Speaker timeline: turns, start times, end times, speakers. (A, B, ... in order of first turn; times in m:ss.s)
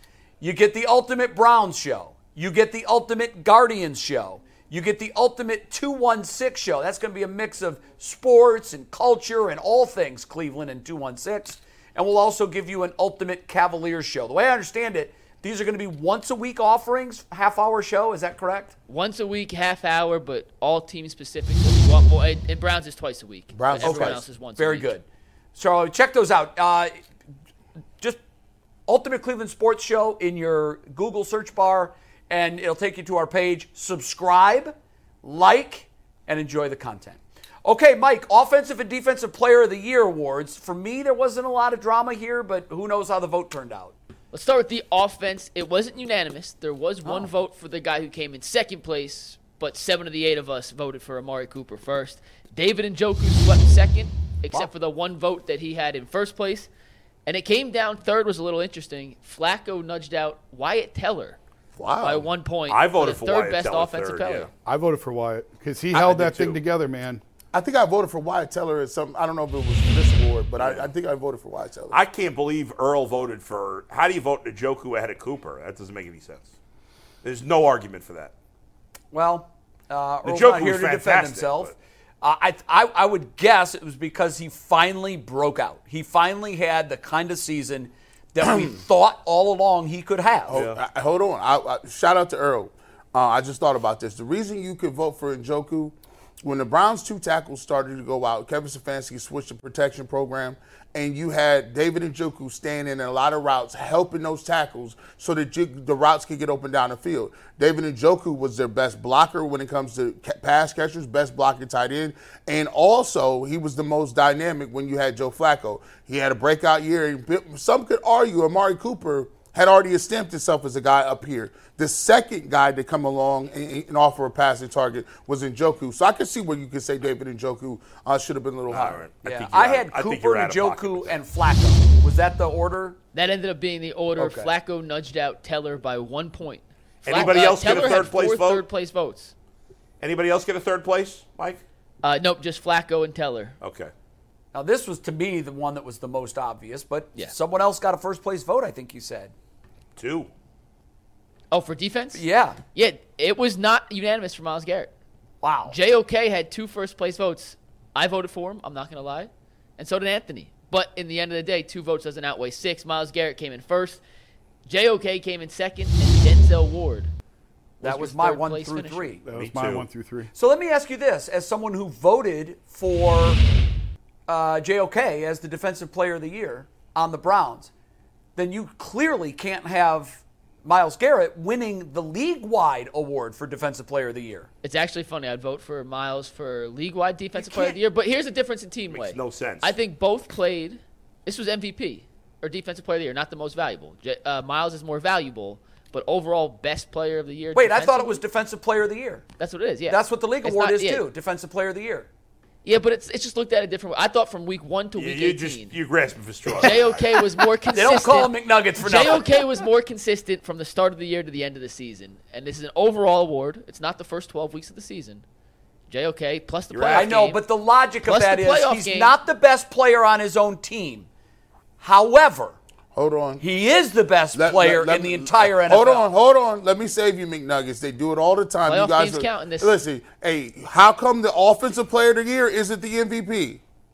0:00.4-0:18.8 A
0:18.9-0:24.9 B
0:23.5-0:24.2 C
0:23.8-0:25.0 A
0:25.6-0:27.0 A
0:28.9-0:44.0 A
0:44.3-0:56.7 B
0:57.3-1:01.4 B
1:01.8-1:02.3 C
1:02.0-1:04.5 B
1:02.7-1:04.5 D
1:04.6-1:07.2 E
1:05.9-1:06.6 D
1:07.5-1:12.0 C
1:10.6-1:10.9 D
1:11.9-1:16.5 D
1:17.2-1:18.3 D
1:19.1-1:30.6 A
1:20.2-1:21.7 D
1:30.5-2:09.0 C
1:30.5-1:30.8 D
2:08.7-2:11.1 D
2:08.8-2:13.0 A
2:13.1-2:19.3 B
2:14.2-2:14.5 A
2:17.0-2:18.6 D
2:17.1-2:18.0 A
2:20.0-2:21.6 D
2:22.0-2:23.6 B
2:23.6-2:23.9 D
2:24.5-2:29.3 A
2:30.0-2:30.3 D
2:31.5-2:32.2 B
2:32.1-2:32.6 A
2:32.7-2:34.9 B
2:35.4-2:35.8 A
2:35.7-2:44.0 B
2:44.7-2:47.1 B
2:47.8-2:49.2 B
2:47.8-2:49.2 A
2:49.2-2:50.3 E
2:49.3-2:49.9 D
2:50.3-2:53.4 A
2:54.3-2:57.7 A
2:58.4-3:04.5 A
3:04.6-3:18.2 B
3:07.4-3:07.8 A
3:08.9-3:09.7 D
3:17.6-3:19.2 A
3:19.4-3:21.0 B
3:19.9-3:22.1 A
3:22.6-3:25.8 B
3:25.0-3:27.0 D
3:26.6-3:35.2 B
3:27.7-3:29.6 A
3:35.9-3:37.4 B
3:36.7-3:37.1 D
3:36.9-3:41.1 A
3:38.0-3:39.2 B
3:41.8-3:42.6 A
3:43.0-3:43.4 C
3:43.4-3:46.1 A
3:44.3-3:53.6 C
3:48.7-3:49.8 B